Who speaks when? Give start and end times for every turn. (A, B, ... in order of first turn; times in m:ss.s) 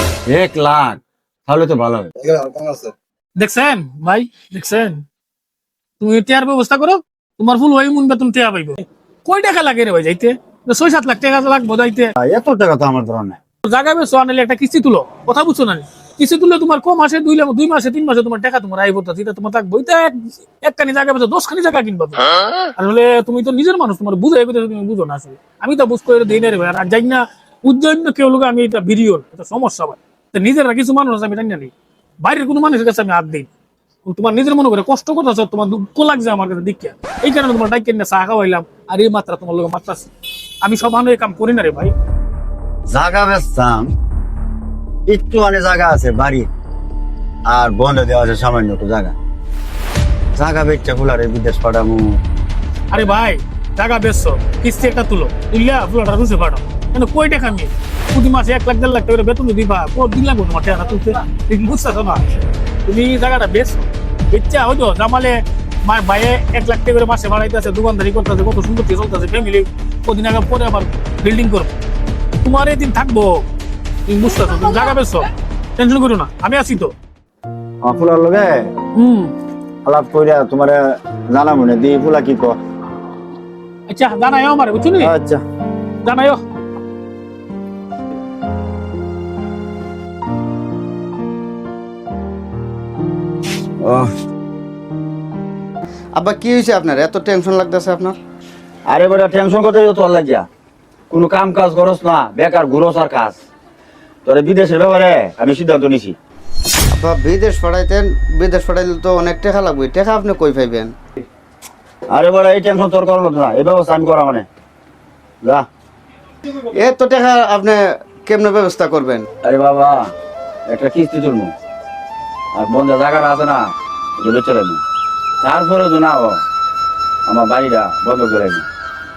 0:00.3-0:02.1 A
0:02.2-0:02.9 B
0:03.4-0:05.0 C
0:06.0-0:12.1 C
0:12.2-0:13.4 A
0:13.6-0:22.2 C
0:22.8-0:33.5 C
0:34.1-0:40.1 C
0:40.6-0:41.9 C
0:42.9-0:43.9 A
0:45.1-0:46.5 A
0:47.5-0:49.1 A
0:50.4-0:52.2 A
0:52.9-1:02.2 C
1:02.9-1:11.7 C
1:12.4-1:13.4 C
1:14.1-1:15.3 C
1:15.8-1:16.9 C
1:17.8-1:18.7 A
1:19.0-1:19.3 C
1:19.8-1:22.6 A
1:23.9-1:25.1 C
1:25.0-1:25.4 A
1:26.0-1:26.4 C
1:33.8-1:34.1 A
1:36.2-1:38.2 B
1:38.9-1:40.5 A
1:41.1-1:43.4 A
1:44.2-1:46.2 A
1:46.9-1:50.9 B
1:52.1-1:54.5 A
1:56.8-1:59.3 B
1:59.4-2:00.1 A
2:00.7-2:01.5 A
2:02.5-2:04.8 A
2:05.4-2:06.4 A
2:07.3-2:08.7 A